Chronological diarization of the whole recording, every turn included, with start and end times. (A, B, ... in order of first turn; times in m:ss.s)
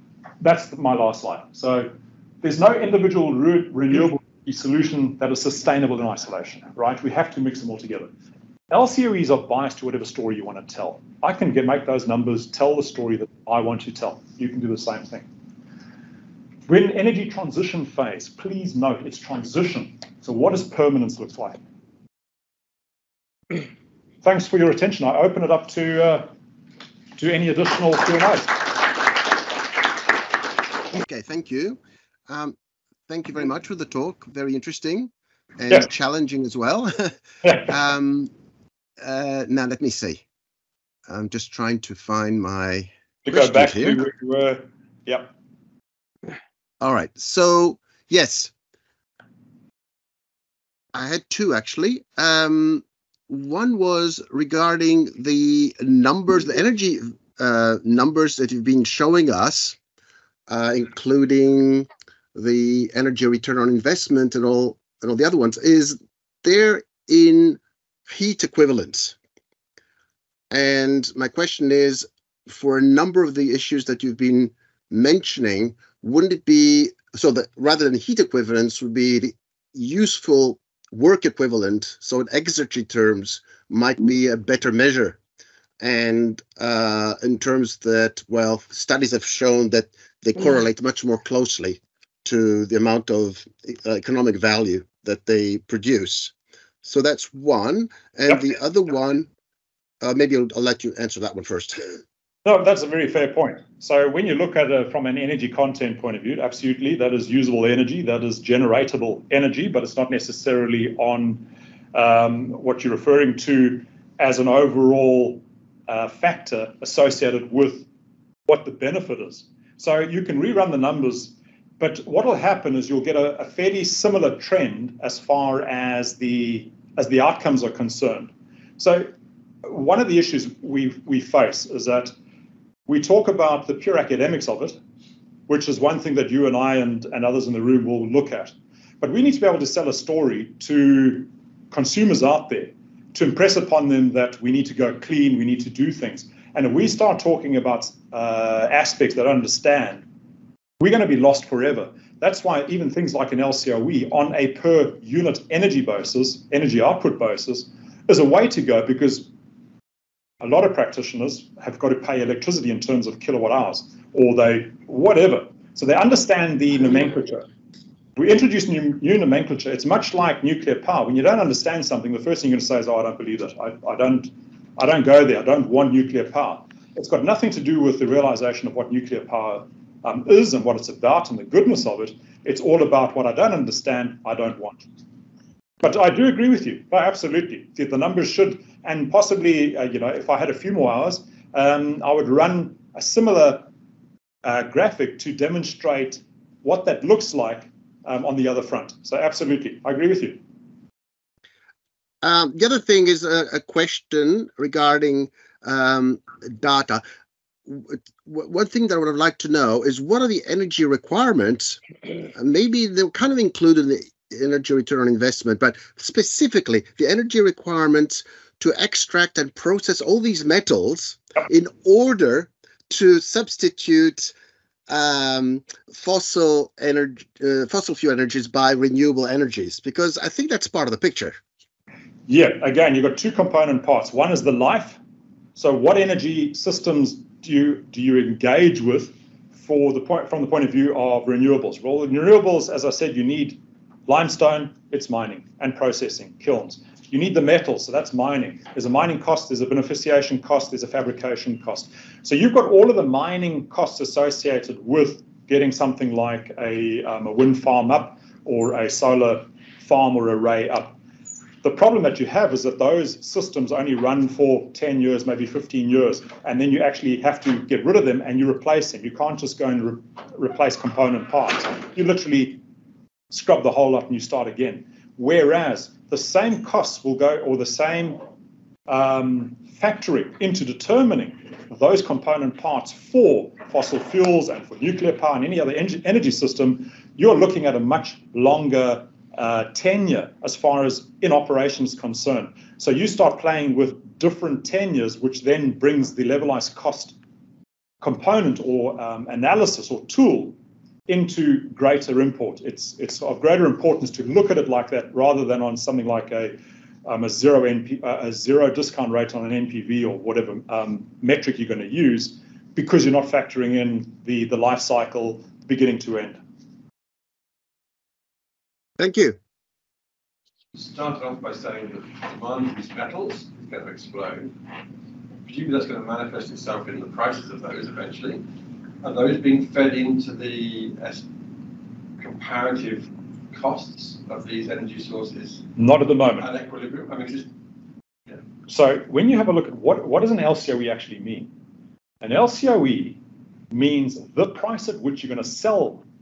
0:00.4-0:01.9 A
0:02.4-0:08.1 A
0:08.7-0:15.3 A
0:16.7-0:21.6 A
0:24.2-0:26.3 A
0:27.2-0:28.9 A
0:30.9-0:32.6 B
0:33.1-0:38.3 B
0:37.4-0:37.7 A
0:39.0-0:40.2 B
0:41.1-0:44.0 B
0:43.2-0:45.3 A
0:46.8-0:48.5 B
0:50.9-0:59.8 B
1:00.5-1:09.2 B
1:10.5-1:25.2 B
1:25.8-1:36.3 B
1:36.8-1:39.3 B
1:40.0-1:42.0 B
1:42.4-1:57.9 A
1:58.5-2:09.1 A
2:09.6-2:12.1 A
2:12.9-2:14.8 A
2:15.5-2:30.0 A
2:30.8-2:39.3 A
2:40.4-2:47.4 A
2:48.2-3:04.8 A
3:05.8-3:13.7 A
3:14.4-3:20.4 A
3:22.2-3:27.0 B
3:27.7-3:31.8 B
3:32.4-3:44.3 B
3:44.9-3:51.4 B
3:52.3-3:55.0 A
3:55.6-4:21.0 A
4:21.6-4:32.6 A
4:33.3-4:38.2 A
4:38.9-4:57.2 A
4:58.0-5:00.6 A
5:01.1-5:16.4 A
5:19.0-5:19.4 B
5:20.8-5:24.5 C
5:25.4-5:28.4 C
5:29.0-5:31.2 C
5:32.2-5:35.7 C
5:35.8-5:36.5 A
5:36.4-5:37.5 C
5:38.7-5:41.5 A
5:42.2-5:43.2 A
5:43.7-5:46.0 A